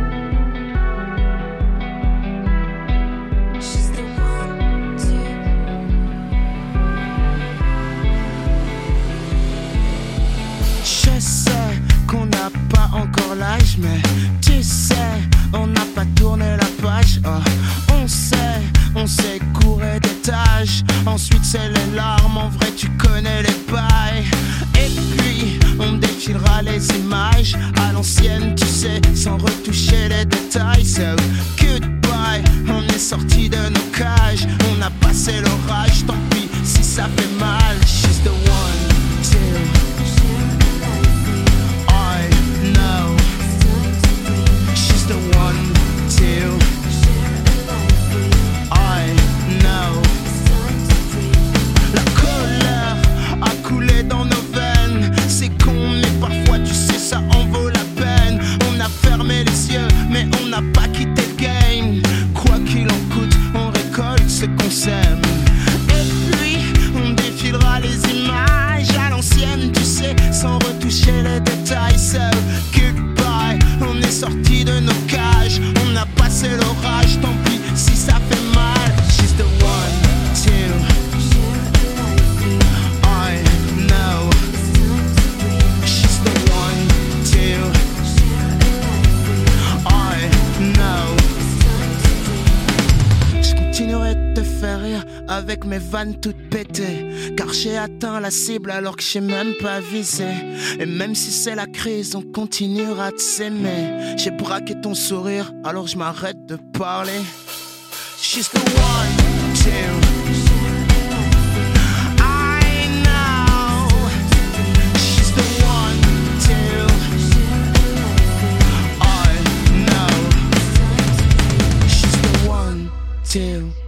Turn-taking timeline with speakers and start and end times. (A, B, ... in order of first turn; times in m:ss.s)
0:10.8-0:40.4 A
0:41.9-0:43.9 A
0:44.5-0:46.7 A
0:48.7-0:51.0 A
0:51.9-1:20.9 A
1:22.5-1:24.8 A
1:25.7-1:27.8 A
1:29.3-1:32.1 A
1:33.4-1:47.3 A
1:48.2-1:50.2 A
1:52.2-1:54.1 A
1:54.9-1:57.5 A
1:59.0-2:00.5 A
2:01.8-2:03.8 A